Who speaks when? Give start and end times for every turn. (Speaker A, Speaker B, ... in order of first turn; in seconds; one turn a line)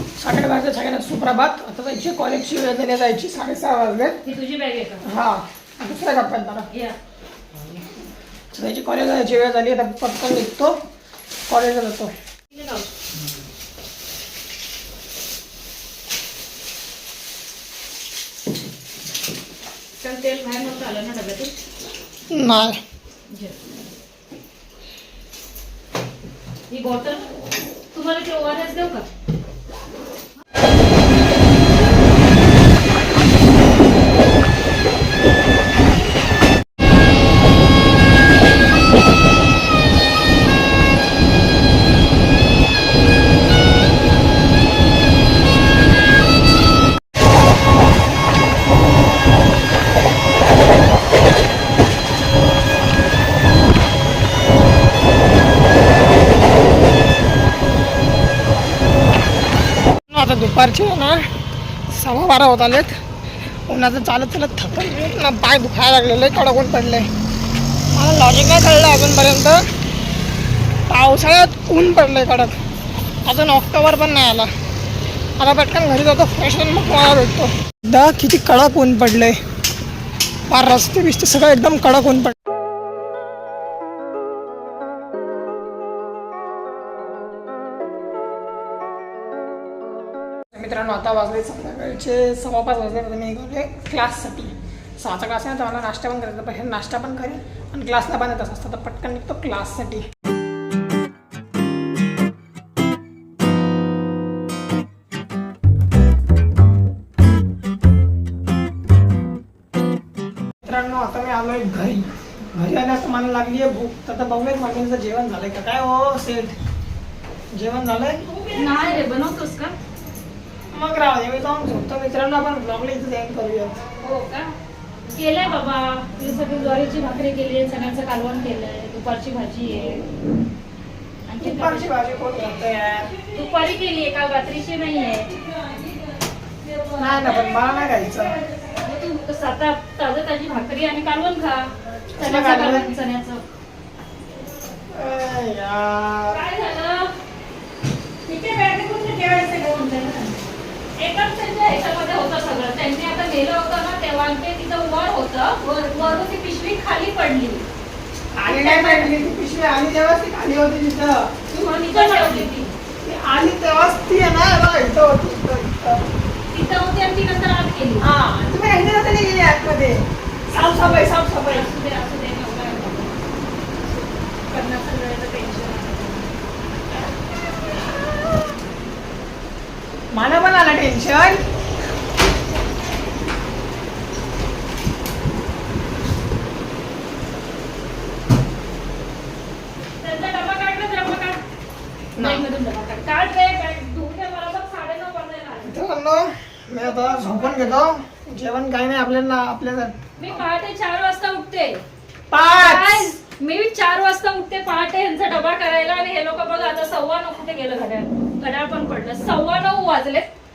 Speaker A: 0.2-4.2
Speaker B: 4.2-5.0
Speaker A: 5.0-6.7
Speaker B: 6.7-7.0
Speaker A: 8.5-10.8
Speaker A: 11.5-12.1
Speaker B: 12.5-12.9
Speaker B: 20.0-21.5
Speaker A: 22.3-22.8
Speaker B: 23.3-23.6
Speaker B: 26.7-27.2
Speaker B: 27.9-29.1
Speaker A: 60.1-61.2
Speaker A: 61.9-63.0
Speaker A: 63.7-67.0
Speaker A: 67.9-69.6
Speaker A: 70.9-72.5
Speaker A: 73.2-74.5
Speaker A: 75.4-79.3
Speaker A: 80.5-82.3
Speaker A: 90.5-100.0
Speaker A: 110.6-116.5
Speaker A: 117.5-118.3
Speaker B: 118.5-119.7
Speaker A: 120.7-123.8
Speaker B: 124.0-124.5
Speaker B: 125.1-130.1
Speaker B: 131.3-131.8
Speaker A: 131.4-133.1
Speaker B: 133.3-137.6
Speaker A: 137.0-138.4
Speaker B: 138.7-143.4
Speaker A: 141.9-142.9
Speaker A: 144.9-146.4
Speaker B: 146.3-147.1
Speaker B: 148.2-150.4
Speaker B: 151.0-157.6
Speaker A: 158.3-161.3
Speaker B: 158.4-159.1
Speaker B: 161.5-162.7
Speaker A: 161.9-162.5
Speaker A: 163.0-166.0
Speaker B: 166.5-168.1
Speaker A: 168.0-171.7
Speaker B: 170.6-173.1
Speaker B: 173.8-176.3
Speaker A: 180.1-181.4
Speaker B: 190.0-191.4
Speaker A: 192.2-192.4
Speaker B: 192.2-195.8
Speaker A: 195.6-200.4
Speaker B: 196.8-197.8
Speaker B: 200.2-201.8
Speaker A: 202.3-203.1
Speaker B: 202.5-210.3